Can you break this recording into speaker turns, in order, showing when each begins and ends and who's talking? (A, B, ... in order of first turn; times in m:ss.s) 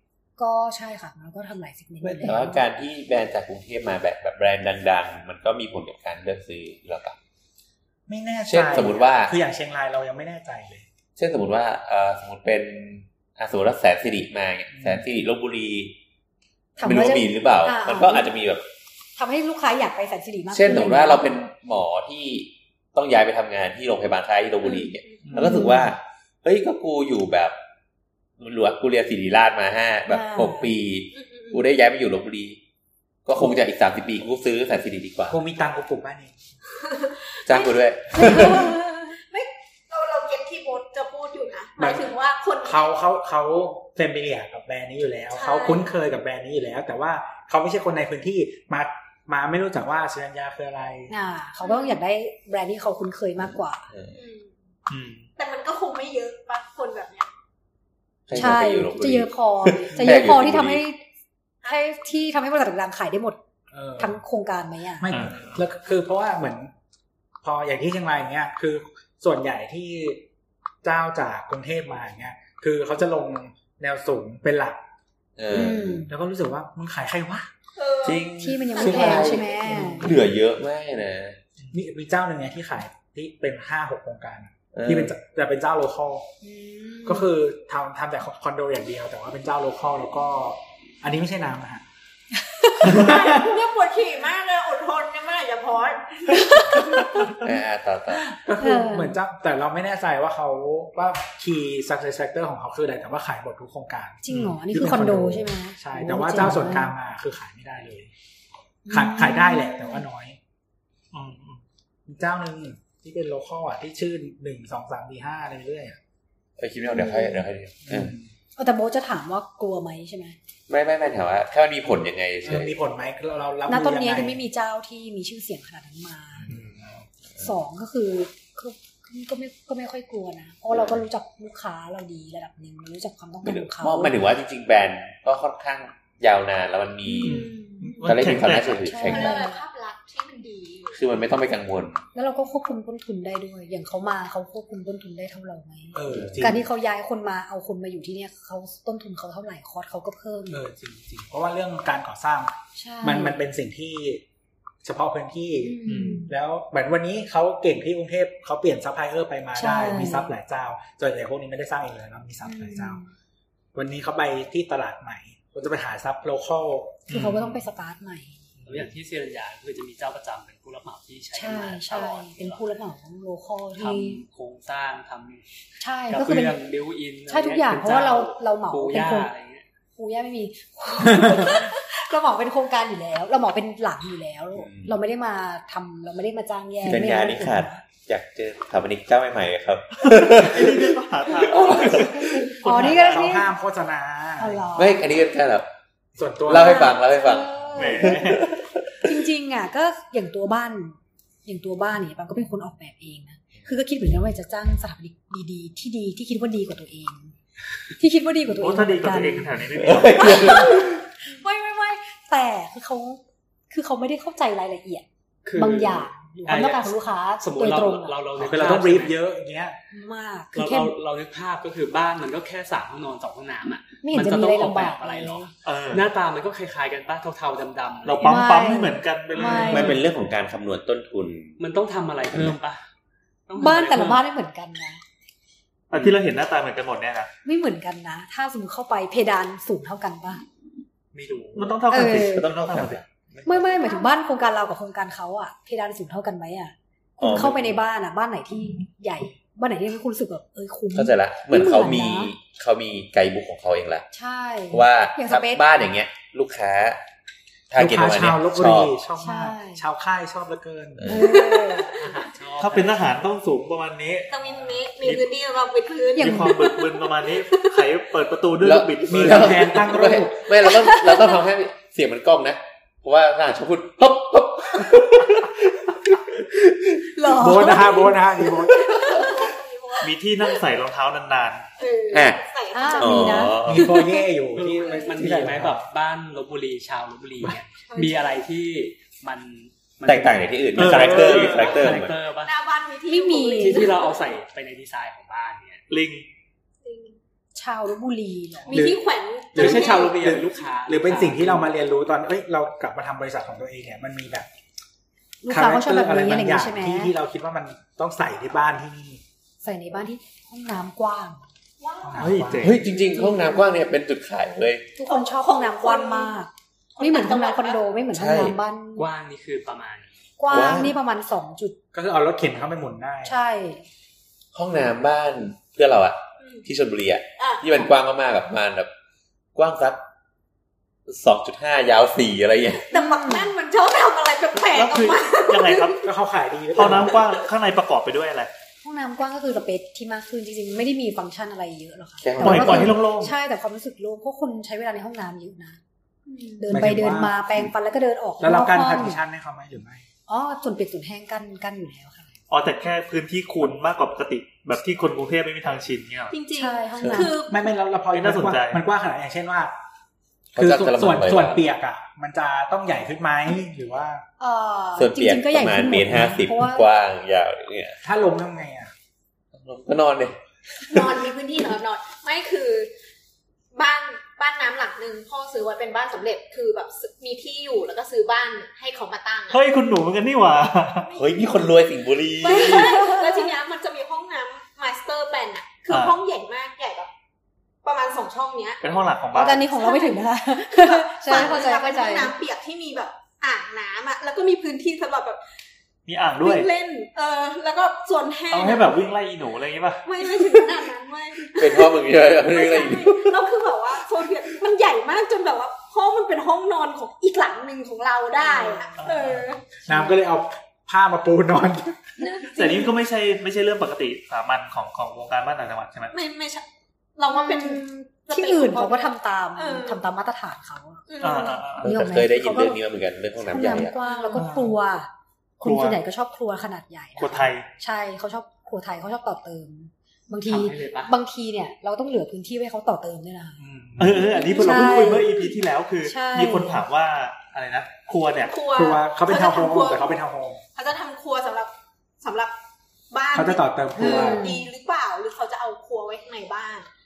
0:00.4-0:02.6 A
0:02.0-0:07.2 B
0:08.1-0:10.9 C
0:08.5-0:09.3 B
0:11.2-0:15.9 B
0:14.7-0:15.0 C
0:16.8-0:18.3 A
0:16.8-0:18.6 B
0:19.2-0:21.3 A
0:20.5-0:27.6 B
0:24.6-0:25.4 D
0:25.3-0:25.9 A
0:28.4-0:32.6 B
0:30.1-0:30.7 A
0:31.1-0:31.6 D
0:33.2-0:35.4 B
0:35.3-0:36.3 C
0:36.8-0:42.9 D
0:37.5-0:38.7 B
0:38.1-0:39.1 A
0:41.8-0:42.1 C
0:42.6-0:51.1 C
0:45.3-0:45.9 D
0:51.1-0:53.9 A
0:51.6-0:52.0 D
0:53.9-0:54.2 B
0:54.1-0:54.5 D
0:54.9-0:55.3 E
0:55.4-0:57.3 D
0:58.3-1:00.8 B
0:58.3-1:01.0 A
1:00.0-1:00.2 C
1:01.6-1:03.4 A
1:03.7-1:04.2 C
1:04.0-1:05.1 A
1:05.0-1:06.7 C
1:05.1-1:05.6 E
1:07.4-1:10.2 C
1:10.8-1:14.8 C
1:15.4-1:16.1 B
1:15.5-1:16.1 A
1:16.1-1:17.5 C
1:17.8-1:19.8 D
1:18.0-1:21.4 B
1:18.4-1:20.1 A
1:19.7-1:20.2 C
1:21.7-1:26.3 C
1:24.7-1:25.1 B
1:26.4-1:27.3 A
1:27.0-1:31.8 C
1:32.8-1:37.3 D
1:32.8-1:33.3 C
1:36.5-1:37.2 A
1:37.4-1:38.3 B
1:38.3-1:48.1 C
1:38.6-1:39.2 A
1:44.2-1:46.9 A
1:44.3-1:44.5 E
1:48.8-1:50.0 A
1:48.9-1:50.4 C
1:51.1-1:51.6 E
1:52.1-1:56.0 C
1:56.6-1:58.2 B
1:56.9-1:57.4 A
1:57.8-1:58.3 C
1:58.6-2:00.4 A
2:00.7-2:02.8 B
2:02.4-2:04.4 C
2:03.7-2:06.6 A
2:06.5-2:06.8 C
2:07.4-2:14.2 A
2:13.4-2:17.5 B
2:17.0-2:18.1 A
2:17.2-2:18.9 E
2:18.0-2:19.4 B
2:18.8-2:19.6 A
2:19.0-2:21.0 D
2:20.9-2:22.0 B
2:22.1-2:30.6 A
2:25.9-2:26.6 C
2:26.1-2:26.5 B
2:30.5-2:34.2 C
2:32.8-2:33.4 A
2:34.8-2:43.0 C
2:35.6-2:36.3 A
2:35.8-2:36.2 E
2:39.5-2:40.3 A
2:42.4-2:43.1 A
2:43.7-2:47.1 C
2:47.1-2:47.6 E
2:47.1-2:48.4 A
2:48.6-2:48.9 E
2:48.6-2:52.6 F
2:51.3-2:54.2 A
2:53.8-2:55.4 F
2:55.8-2:56.6 A
2:56.1-2:59.6 F
2:57.3-2:59.3 A
3:00.0-3:07.8 A
3:04.5-3:05.0 B
3:06.8-3:12.5 B
3:10.0-3:13.3 E
3:11.5-3:13.5 A
3:12.7-3:14.6 C
3:14.4-3:15.1 A
3:14.7-3:15.7 B
3:16.2-3:16.9 C
3:16.4-3:18.7 B
3:16.5-3:18.4 A
3:17.7-3:18.5 E
3:19.0-3:27.3 A
3:28.0-3:29.6 A
3:28.6-3:30.7 E
3:29.8-3:30.9 B
3:30.2-3:38.1 A
3:30.3-3:30.9 D
3:35.4-3:39.2 F
3:38.4-3:39.8 C
3:39.9-3:40.9 A
3:40.5-3:48.6 F
3:44.0-3:45.5 A
3:45.6-3:46.1 E
3:48.0-3:50.0 E
3:48.2-3:50.0 A
3:49.4-3:49.8 F
3:49.5-3:51.6 B
3:51.6-3:52.8 F
3:53.5-3:54.2 F
3:53.6-3:55.0 A
3:55.9-3:57.3 E
3:57.4-4:00.4 A
4:01.1-4:01.8 F
4:01.5-4:03.0 E
4:01.9-4:02.5 A
4:02.4-4:03.0 B
4:03.4-4:12.3 A
4:03.5-4:04.1 D
4:07.2-4:07.7 B
4:10.9-4:14.1 B
4:14.1-4:15.6 A
4:14.7-4:17.0 B
4:17.7-4:18.9 B
4:17.7-4:21.2 C
4:19.2-4:19.8 A
4:21.0-4:21.3 B
4:21.1-4:22.0 A
4:21.5-4:22.1 D
4:22.0-4:23.1 F
4:22.6-4:24.4 E
4:24.3-4:27.0 D
4:25.0-4:25.3 E
4:26.2-4:26.8 A
4:26.2-4:29.8 E
4:28.6-4:35.6 B
4:29.1-4:30.5 C
4:37.1-4:39.1 A
4:37.2-4:39.3 C
4:38.8-4:40.1 D
4:40.0-4:41.7 E
4:41.8-4:43.5 D
4:42.1-4:42.4 B
4:42.7-4:44.2 A
4:43.0-4:43.9 B
4:43.6-4:45.9 C
4:44.5-4:52.6 F
4:47.8-4:48.2 D
4:50.0-4:52.2 B
4:50.8-4:51.9 E
4:52.4-4:54.2 D
4:53.1-4:53.9 A
4:53.6-4:55.8 F
4:55.9-4:56.3 E
4:56.8-4:57.1 D
4:57.5-4:58.8 A
4:58.6-5:00.2 D
4:58.7-4:59.0 C
4:59.5-5:04.5 C
4:59.5-5:01.7 F
5:05.4-5:07.1 A
5:05.5-5:09.2 C
5:09.6-5:11.4 A
5:11.8-5:12.3 D
5:12.0-5:12.8 C
5:12.2-5:12.8 E
5:12.6-5:14.9 B
5:12.9-5:13.7 A
5:15.0-5:19.1 A
5:15.0-5:16.4 D
5:17.0-5:17.8 D
5:18.1-5:18.6 B
5:19.0-5:20.2 F
5:20.4-5:21.8 A
5:20.5-5:20.9 B
5:21.9-5:23.4 C
5:23.2-5:23.9 A
5:24.5-5:28.9 B
5:27.4-5:27.7 D
5:29.5-5:30.0 B
5:31.1-5:32.9 B
5:32.9-5:36.1 D
5:32.9-5:33.5 A
5:34.6-5:36.1 E
5:36.0-5:37.2 C
5:36.7-5:38.5 E
5:38.8-5:45.8 A
5:42.2-5:43.0 B
5:42.4-5:43.3 E
5:46.2-5:46.7 D
5:46.6-5:49.2 A
5:46.7-5:47.7 C
5:48.4-5:50.0 C
5:50.3-5:52.3 A
5:52.5-5:56.4 E
5:56.3-5:57.6 D
5:56.5-5:57.4 A
5:57.5-5:59.7 C
5:58.1-5:58.8 E
6:00.5-6:01.6 B
6:00.5-6:04.2 C
6:04.4-6:06.9 A
6:05.0-6:08.0 B
6:08.0-6:08.9 C
6:09.5-6:11.1 B
6:10.8-6:12.9 D
6:13.7-6:19.6 D
6:19.5-6:21.1 E
6:21.1-6:21.6 D
6:21.1-6:22.9 B
6:22.4-6:27.1 D
6:22.5-6:23.5 A
6:25.9-6:26.2 E
6:27.8-6:28.8 D
6:28.8-6:29.7 E
6:29.3-6:32.3 A
6:29.7-6:35.4 D
6:36.1-6:36.7 E
6:36.4-6:39.1 D
6:38.5-6:40.7 E
6:40.0-6:49.6 D
6:41.5-6:43.4 B
6:48.4-6:48.9 A
6:49.0-6:49.5 E
6:49.8-6:52.2 C
6:52.2-6:52.8 D
6:52.5-6:56.1 E
6:56.1-7:00.0 D
6:57.3-7:01.0 A
7:01.1-7:01.6 D
7:01.2-7:01.9 E
7:01.8-7:02.8 A
7:01.8-7:03.9 B
7:03.4-7:13.6 A
7:04.0-7:04.4 D
7:04.3-7:04.7 E
7:05.6-7:06.0 E
7:07.2-7:07.7 E
7:10.4-7:11.1 F
7:13.6-7:14.3 C
7:14.0-7:18.5 E
7:14.3-7:15.5 A
7:14.5-7:15.3 D
7:16.0-7:16.8 A
7:18.4-7:20.1 D
7:18.7-7:20.6 C
7:20.7-7:22.5 D
7:23.1-7:26.9 D
7:23.3-7:24.5 C
7:24.0-7:24.7 A